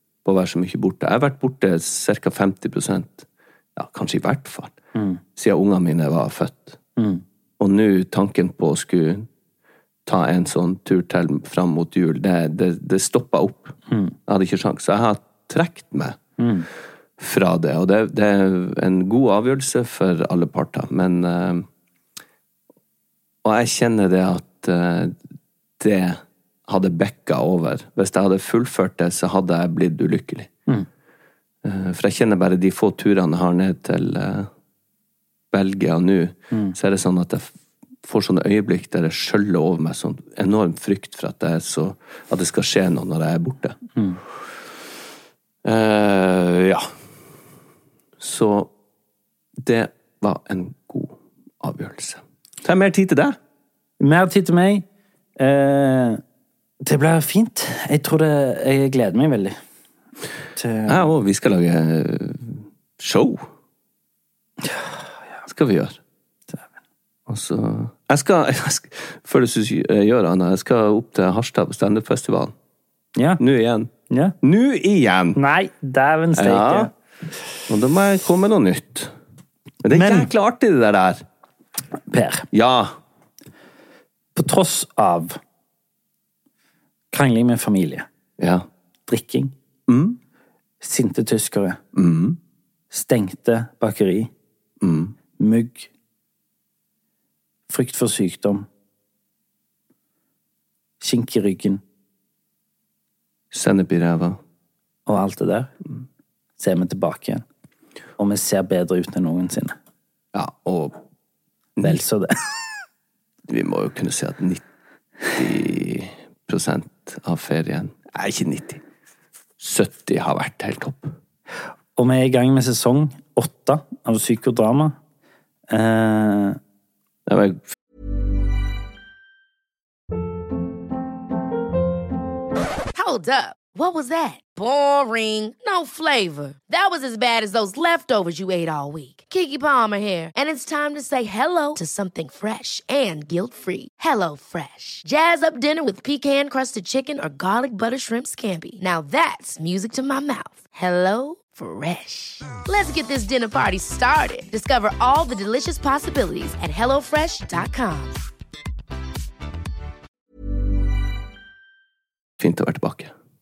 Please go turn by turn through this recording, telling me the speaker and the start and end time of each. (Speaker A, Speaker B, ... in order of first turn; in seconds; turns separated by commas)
Speaker A: 0.2-4.7, Speaker B: 4.9-5.2, Speaker A: 5.3-6.8, Speaker B: 7.0-7.2, Speaker A: 7.6-9.3, Speaker A: 10.0-16.2, Speaker B: 13.9-14.1, Speaker B: 16.4-16.7, Speaker A: 17.2-21.6, Speaker A: 23.4-25.2, Speaker A: 25.8-30.5, Speaker A: 31.6-34.5, Speaker A: 35.5-37.5, Speaker A: 38.0-43.8, Speaker A: 45.6-46.9, Speaker A: 48.2-48.7, Speaker A: 49.6-53.4, Speaker B: 54.0-54.8, Speaker B: 55.4-56.2, Speaker B: 56.9-59.6, Speaker B: 60.5-61.0, Speaker A: 60.9-63.5, Speaker A: 65.5-66.0, Speaker A: 67.3-72.5, Speaker B: 73.2-73.4, Speaker A: 73.4-73.9, Speaker A: 74.4-75.4, Speaker B: 75.3-76.9, Speaker A: 76.3-76.9, Speaker A: 77.7-79.1, Speaker A: 79.8-81.2, Speaker B: 79.9-80.3, Speaker B: 82.1-82.5, Speaker A: 82.5-83.0, Speaker B: 84.3-85.4, Speaker B: 87.1-88.0, Speaker A: 88.4-88.7, Speaker B: 89.1-89.5, Speaker A: 89.9-90.2, Speaker B: 90.8-91.8, Speaker A: 91.9-92.4, Speaker B: 92.9-94.3, Speaker A: 94.8-95.1, Speaker B: 95.4-95.9, Speaker B: 97.7-98.7, Speaker B: 101.0-101.8, Speaker A: 103.5-104.4, Speaker B: 105.1-105.7, Speaker B: 106.6-107.4, Speaker B: 108.2-109.8, Speaker A: 110.3-111.0, Speaker A: 111.8-112.0, Speaker B: 111.8-112.3, Speaker A: 113.5-114.6, Speaker A: 115.3-118.8, Speaker A: 119.6-121.2, Speaker B: 122.0-124.9, Speaker B: 125.7-126.6, Speaker A: 127.2-127.6, Speaker C: 132.9-158.2, Speaker A: 162.4-163.1